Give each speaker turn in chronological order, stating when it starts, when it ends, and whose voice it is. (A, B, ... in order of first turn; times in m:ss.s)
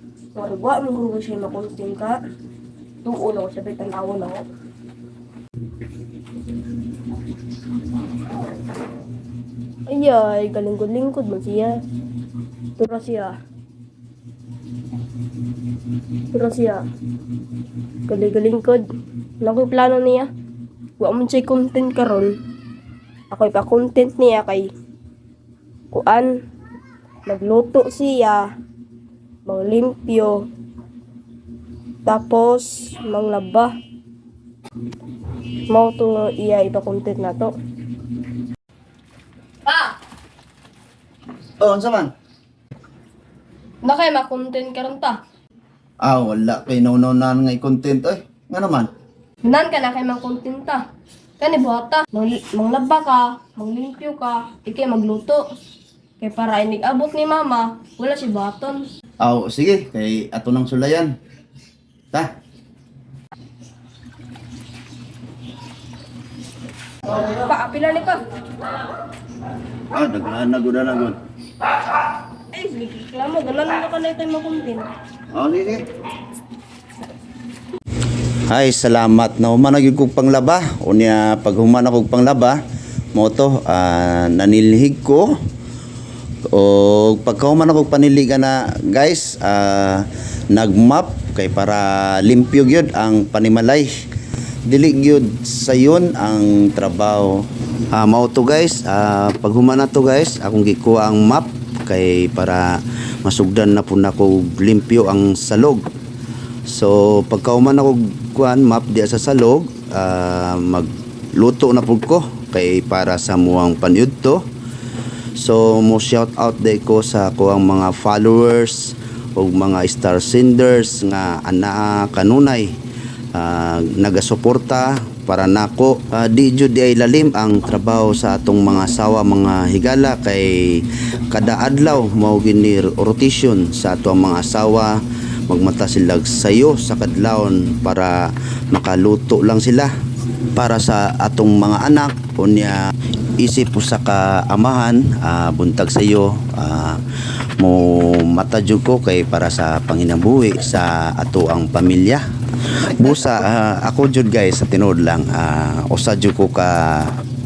0:00.3-0:02.2 A
0:03.0-0:04.4 A
0:09.9-0:11.8 A
0:12.8-0:13.4 A
0:16.3-0:16.8 A
0:18.1-0:18.8 A
0:19.4-0:20.3 A
0:21.0-0:22.4 A
0:23.3-0:24.7 A
0:25.9-0:26.3 A
0:27.2-0:28.4 A
0:29.4-0:30.5 A
0:32.0-0:33.7 A
0:35.7-0:37.5 A
0:39.6-0:39.9 A
0:41.6-0:42.1 B
0:43.8-0:45.2 A
0:46.0-0:48.9 B
0:49.4-0:50.8 A
0:51.4-0:55.4 A
0:56.2-0:58.9 A
0:59.2-1:01.1 B
1:07.1-1:08.2 A
1:09.9-1:11.2 B
1:12.5-1:14.9 A
1:15.3-1:15.8 B
1:18.5-1:22.6 B
1:23.1-1:25.4 B
1:26.5-1:33.9 B
1:34.6-1:45.8 B
1:46.6-1:54.4 B
1:55.3-2:02.7 B
2:03.3-2:19.9 B
2:20.5-2:27.0 B
2:27.6-2:37.1 B